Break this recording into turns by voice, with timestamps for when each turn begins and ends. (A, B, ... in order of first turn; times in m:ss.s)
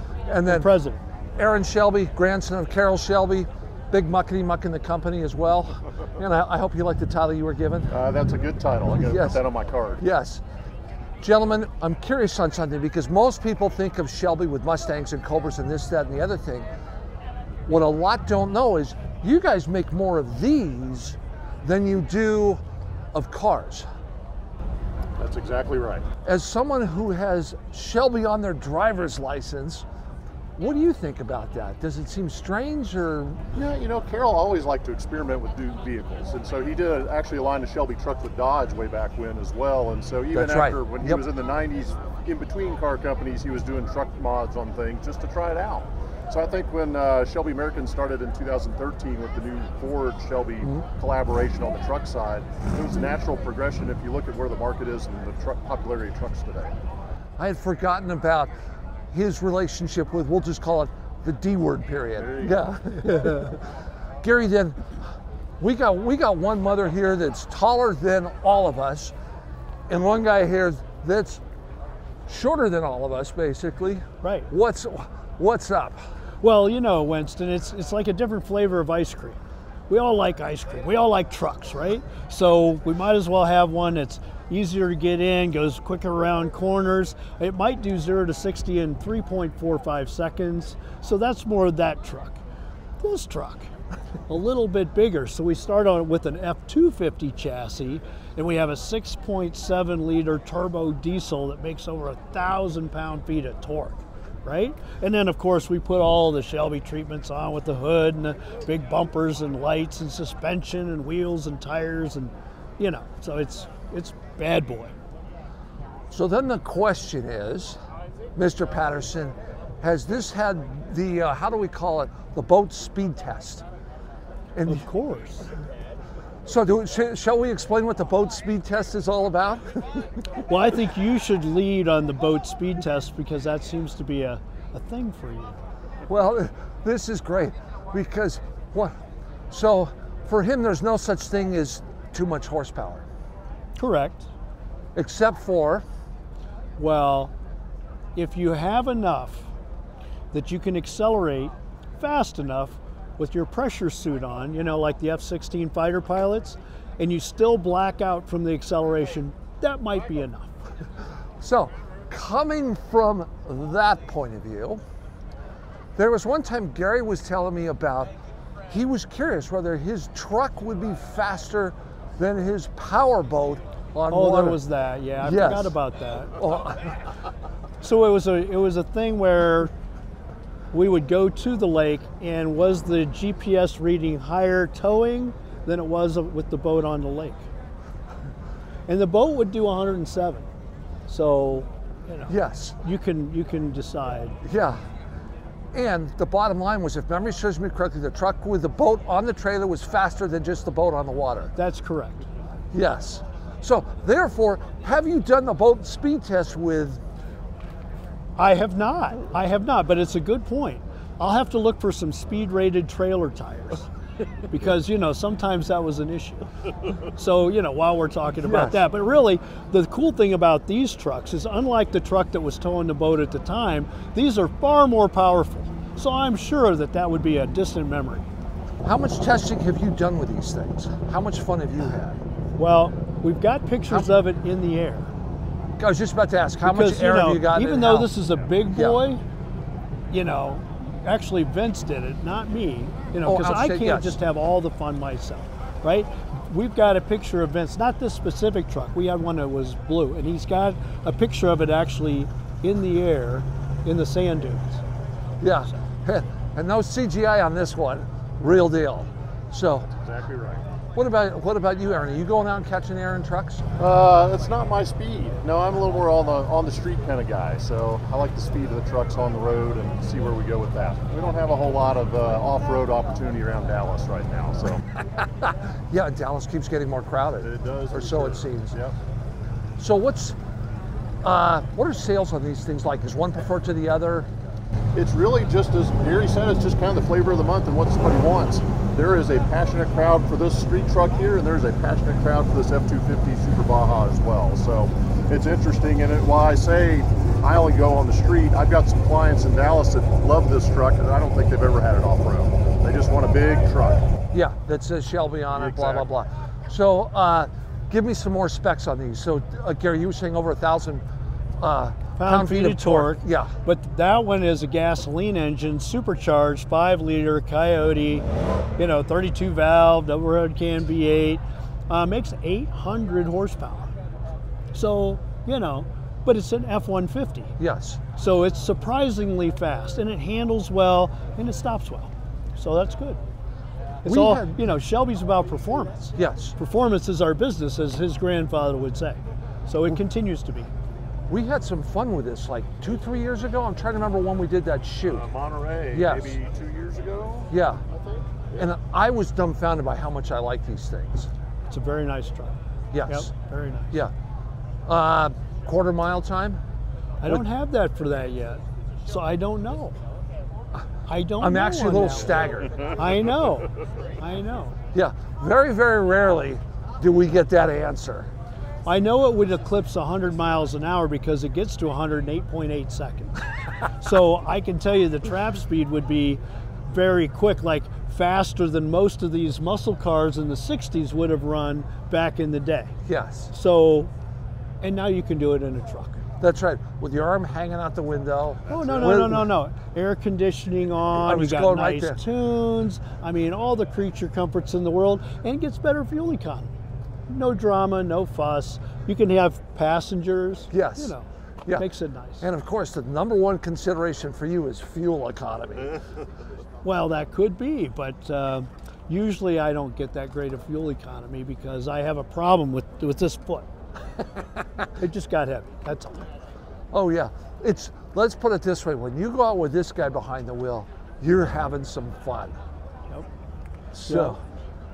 0:00.3-0:00.7 A
0:00.5-0:01.0 B
0:01.4-0:07.9 A
0:07.9-0:10.0 C
0:09.1-0:09.4 A
0:10.0-0:10.4 A
0:11.2-0:16.7 A
0:17.7-0:22.6 A
0:23.1-0:23.9 A
0:25.2-0:26.1 C
0:26.2-0:29.8 A
0:30.6-0:33.4 A
0:33.5-0:56.7 C
0:40.3-0:41.2 A
0:57.4-0:58.5 A
0:59.1-1:03.7 A
1:02.2-1:02.6 C
1:04.2-1:04.9 A
1:05.6-1:09.1 A
1:09.9-1:11.4 A
1:12.3-1:16.0 A
1:14.2-1:14.5 B
1:16.4-1:32.4 B
1:33.0-1:33.7 B
1:34.3-1:54.9 B
1:56.1-1:57.8 A
1:58.4-2:03.6 A
2:04.6-2:04.8 A
2:04.7-2:05.5 B
2:06.5-2:10.1 A
2:10.5-2:15.6 B
2:16.1-2:19.0 A
2:19.5-2:23.0 A
2:23.8-2:24.3 B
2:25.0-2:25.8 A
2:26.8-2:27.3 B
2:28.2-2:29.5 B
2:30.3-2:40.6 B
2:41.4-2:44.8 A
2:46.0-2:48.1 A
2:48.7-2:54.6 A
2:54.1-2:56.4 B
2:55.2-2:55.8 A
2:56.4-2:57.0 A
2:57.8-2:59.7 B
3:00.7-3:07.5 B
3:08.9-3:10.5 B
3:11.1-3:14.4 B
3:12.3-3:12.8 A
3:14.4-3:14.8 A
3:15.7-3:21.5 A
3:21.6-3:22.3 B
3:22.7-3:27.0 A
3:28.4-3:33.9 B
3:34.5-3:48.3 B
3:38.4-3:38.8 A
3:48.8-3:52.2 A
3:52.6-3:55.1 B
3:55.8-3:58.1 A
3:56.6-3:59.2 B
3:58.7-3:59.0 A
4:00.1-4:14.8 B
4:03.2-4:04.2 A
4:15.4-4:19.9 A
4:19.9-4:20.6 C
4:21.0-4:23.6 A
4:23.8-4:34.8 C
4:35.2-4:38.8 A
4:37.4-4:39.0 C
4:39.8-4:40.4 A
4:41.2-4:44.3 A
4:45.0-5:04.1 C
5:04.3-5:11.0 A
5:05.5-5:06.1 C
5:11.6-5:13.5 A
5:12.2-5:18.3 B
5:18.8-5:23.9 B
5:24.7-5:27.5 B
5:27.6-5:28.0 A
5:28.2-5:33.2 B
5:34.0-5:34.5 A
5:34.0-5:40.7 B
5:36.2-5:36.6 A
5:41.3-5:45.3 A
5:45.1-5:48.7 C
5:45.9-5:46.4 A
5:47.5-5:47.8 A
5:48.6-5:51.3 A
5:51.7-5:54.0 B
5:52.9-5:53.3 A
5:54.9-5:56.6 A
5:57.2-6:00.0 B
6:01.1-6:04.8 B
6:01.4-6:03.0 A
6:04.9-6:08.3 A
6:08.9-6:22.9 B
6:23.1-6:23.5 A
6:23.5-6:24.1 B
6:24.8-6:26.2 B
6:26.4-6:29.5 A
6:28.7-6:29.2 C
6:28.7-6:36.7 B
6:31.2-6:32.2 A
6:37.3-6:42.5 B
6:40.7-6:41.1 A
6:42.4-6:46.0 A
6:46.8-6:53.7 B
6:55.0-6:56.3 B
6:56.9-7:02.6 A
7:03.9-7:04.4 A
7:04.1-7:04.4 B